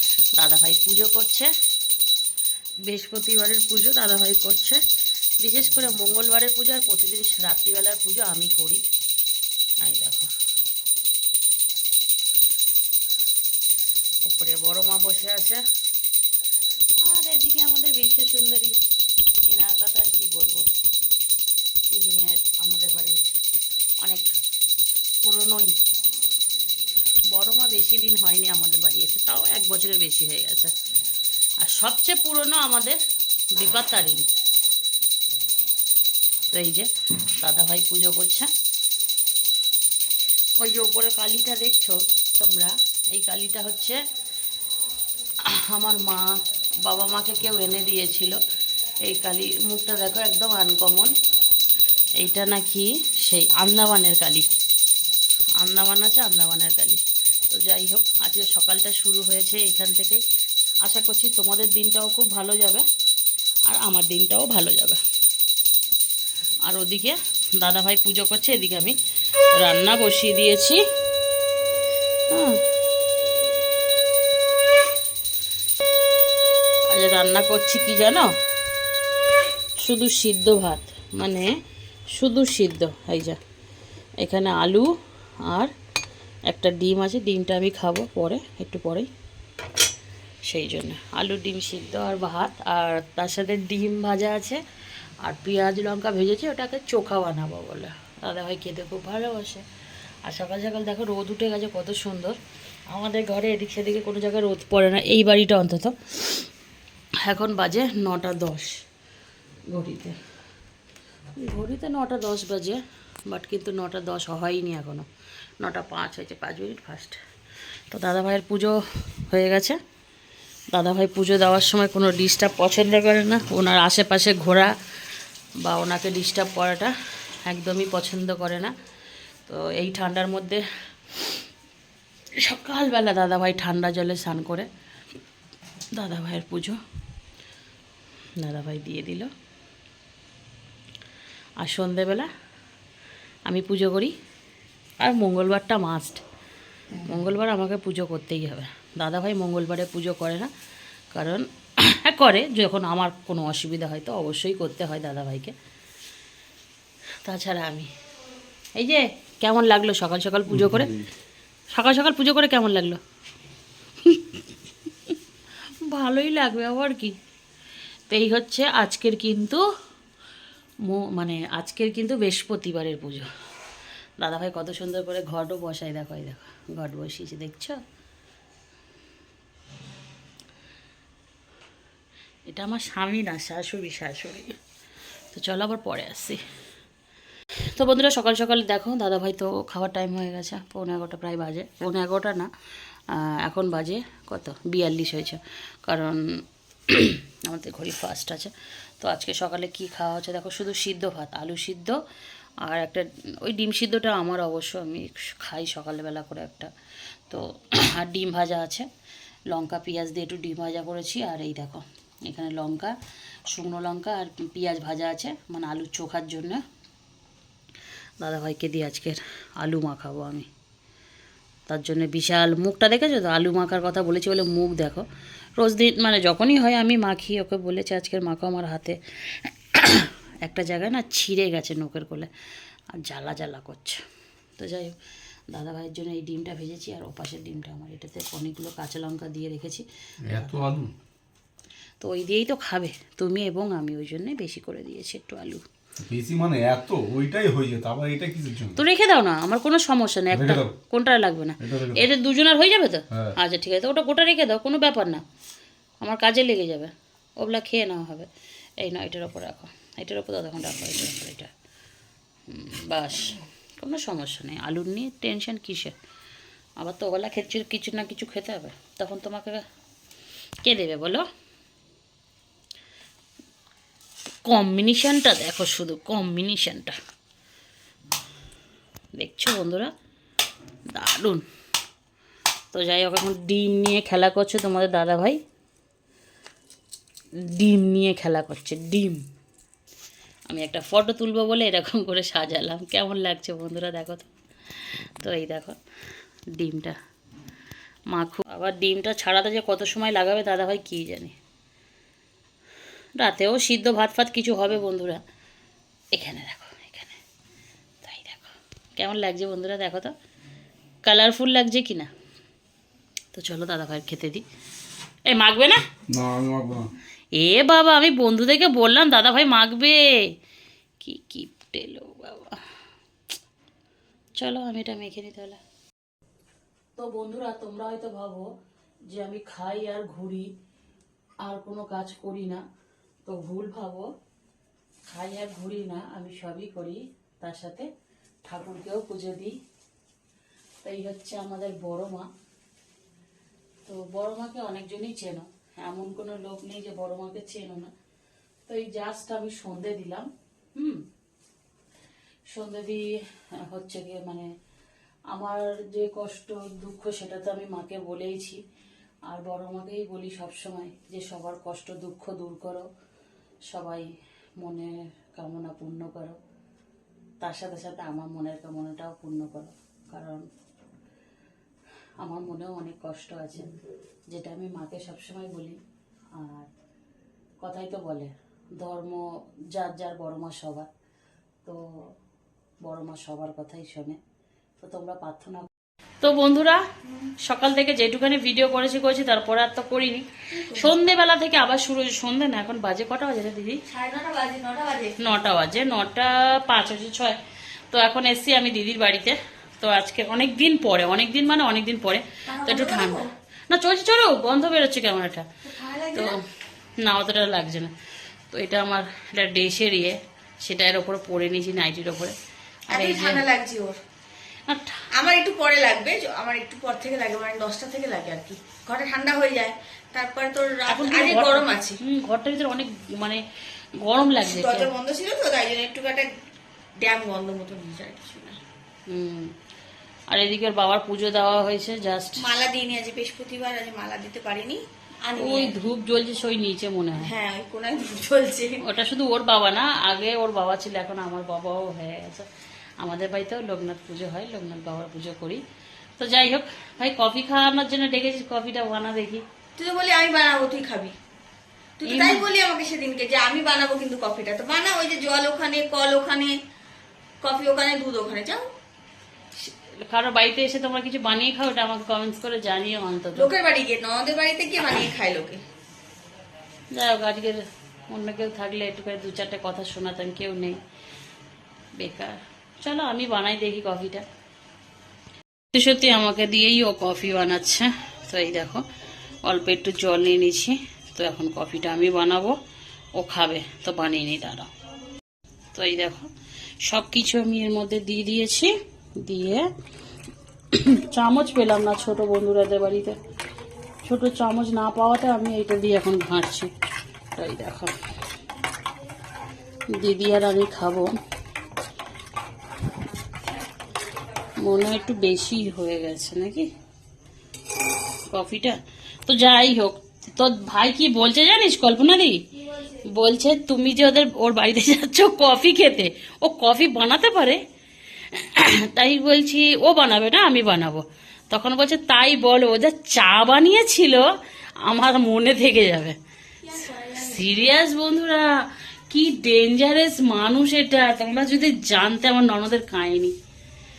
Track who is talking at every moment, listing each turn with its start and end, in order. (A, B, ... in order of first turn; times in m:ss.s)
0:00.4-0:01.5 A
0:02.9-0:04.8 A
0:05.4-0:08.8 A
0:09.8-0:10.3 A
0:14.2-0:15.6 A
0:17.0-0:18.8 A
0:19.5-0:20.7 A
0:21.9-0:23.2 A
0:24.0-0:24.3 A
0:25.2-0:25.8 A
0:27.3-0:30.7 A
0:31.6-0:33.0 A
0:33.5-0:34.3 A
0:36.5-0:38.5 A
0:40.6-0:44.0 A
0:45.4-0:48.4 A
0:49.0-0:51.2 A
0:52.2-0:54.5 A
0:55.6-1:00.2 A
1:00.8-1:02.9 A
1:03.7-1:05.0 A
1:06.7-1:09.0 A
1:09.6-1:10.8 A
1:12.3-1:12.6 A
1:16.9-1:18.3 A
1:19.8-1:21.5 A
1:22.1-1:23.4 A
1:24.2-1:24.9 A
1:25.4-1:25.7 A
1:26.5-1:29.1 A
1:30.4-1:34.6 A
1:35.2-1:39.6 A
1:40.2-1:42.4 A
1:42.9-1:46.5 A
1:47.2-1:48.7 A
1:49.7-1:50.2 A
1:51.4-1:55.1 A
1:55.6-1:57.2 A
1:57.9-1:59.8 A
2:00.7-2:04.8 A
2:05.6-2:06.9 A
2:07.4-2:08.7 A
2:09.5-2:10.6 A
2:12.4-2:14.7 A
2:15.9-2:16.8 A
2:18.4-2:19.3 A
2:21.6-2:22.3 A
2:23.5-2:24.1 A
2:25.0-2:26.2 A
2:27.0-2:30.5 A
2:31.1-2:35.6 A
2:37.2-2:37.9 A
2:38.8-2:41.0 A
2:40.5-2:41.0 B
2:41.7-2:43.0 A
2:44.0-2:44.5 A
2:45.8-2:47.2 A
2:48.1-2:49.6 A
2:50.9-2:53.3 A
2:54.2-2:57.8 A
3:02.5-3:04.6 A
3:05.3-3:06.4 A
3:07.7-3:12.5 A
3:13.1-3:22.0 A
3:22.6-3:26.7 A
3:27.3-3:28.9 A
3:29.5-3:32.9 A
3:33.5-3:36.6 A
3:38.2-3:40.5 A
3:41.7-3:45.1 A
3:45.6-3:52.3 A
3:52.9-3:54.0 A
3:54.6-3:55.0 A
3:55.5-4:00.7 A
4:00.2-4:00.9 B
4:02.0-4:05.6 A
4:06.0-4:08.8 B
4:08.8-4:15.2 A
4:10.3-4:10.8 B
4:11.6-4:12.1 B
4:13.1-4:13.4 B
4:16.0-4:18.3 A
4:18.8-4:21.5 A
4:22.5-4:26.0 A
4:26.8-4:29.6 A
4:30.6-4:31.3 A
4:34.4-4:37.0 A
4:39.2-4:39.9 A
4:40.9-4:41.4 A
4:42.7-4:45.4 A
4:47.5-4:49.2 A
4:50.5-4:54.3 A
4:55.2-4:55.8 A
4:56.6-4:57.0 A
4:58.1-5:01.4 A
5:03.2-5:05.2 A
5:06.1-5:07.2 A
5:08.0-5:10.1 A
5:11.0-5:12.1 A
5:13.3-5:14.4 A
5:15.3-5:15.8 A
5:16.1-5:16.9 B
5:17.4-5:20.3 A
5:21.0-5:22.6 A
5:24.4-5:25.6 A
5:27.0-5:28.5 A
5:29.1-5:30.5 A
5:31.4-5:32.6 A
5:33.2-5:34.1 A
5:35.1-5:37.9 A
5:38.4-5:39.6 A
5:40.8-5:42.3 A
5:43.9-5:47.9 A
5:48.7-5:51.0 A
5:52.5-5:54.5 A
5:55.3-5:58.6 A
5:59.3-6:02.9 A
6:03.7-6:04.1 A
6:04.6-6:06.4 A
6:07.4-6:10.5 A
6:12.2-6:13.7 A
6:14.3-6:15.8 A
6:16.4-6:16.7 A
6:17.6-6:20.9 A
6:21.6-6:22.1 A
6:22.8-6:24.2 A
6:24.8-6:25.7 A
6:26.2-6:26.8 A
6:27.4-6:33.8 A
6:30.5-6:30.9 C
6:33.9-6:35.2 C
6:35.2-6:45.5 A
6:42.5-6:43.3 C
6:45.6-6:46.4 C
6:46.1-6:46.4 A
6:47.0-6:47.9 A
6:48.5-6:52.4 A
6:52.9-6:53.4 A
6:52.9-6:54.0 C
6:54.7-6:55.0 A
6:55.2-7:02.0 C
7:00.9-7:03.4 A
7:04.0-7:04.9 A
7:04.4-7:06.3 C
7:07.0-7:08.6 C
7:09.1-7:09.5 A
7:10.3-7:12.6 A
7:12.4-7:15.8 C
7:15.4-7:17.3 A
7:17.2-7:18.8 C
7:18.8-7:22.5 A
7:23.0-7:25.6 A
7:26.2-7:29.4 A
7:29.8-7:31.2 C
7:32.0-7:36.6 C
7:32.1-7:32.4 A
7:37.4-7:38.7 C
7:39.6-7:43.5 A
7:43.4-7:45.6 C
7:46.9-7:50.8 A
7:52.0-7:54.2 A
7:55.7-7:58.8 A
7:59.4-8:02.6 A
8:03.2-8:04.7 A
8:05.7-8:06.3 A
8:06.8-8:09.7 A
8:10.7-8:13.2 A
8:14.0-8:16.7 A
8:17.3-8:18.0 A
8:19.9-8:21.2 A
8:23.2-8:25.3 C
8:24.6-8:26.7 A
8:28.3-8:32.4 A
8:32.6-8:33.0 C
8:33.1-8:37.6 A
8:38.2-8:46.2 A
8:46.6-8:47.5 C
8:47.1-8:53.3 A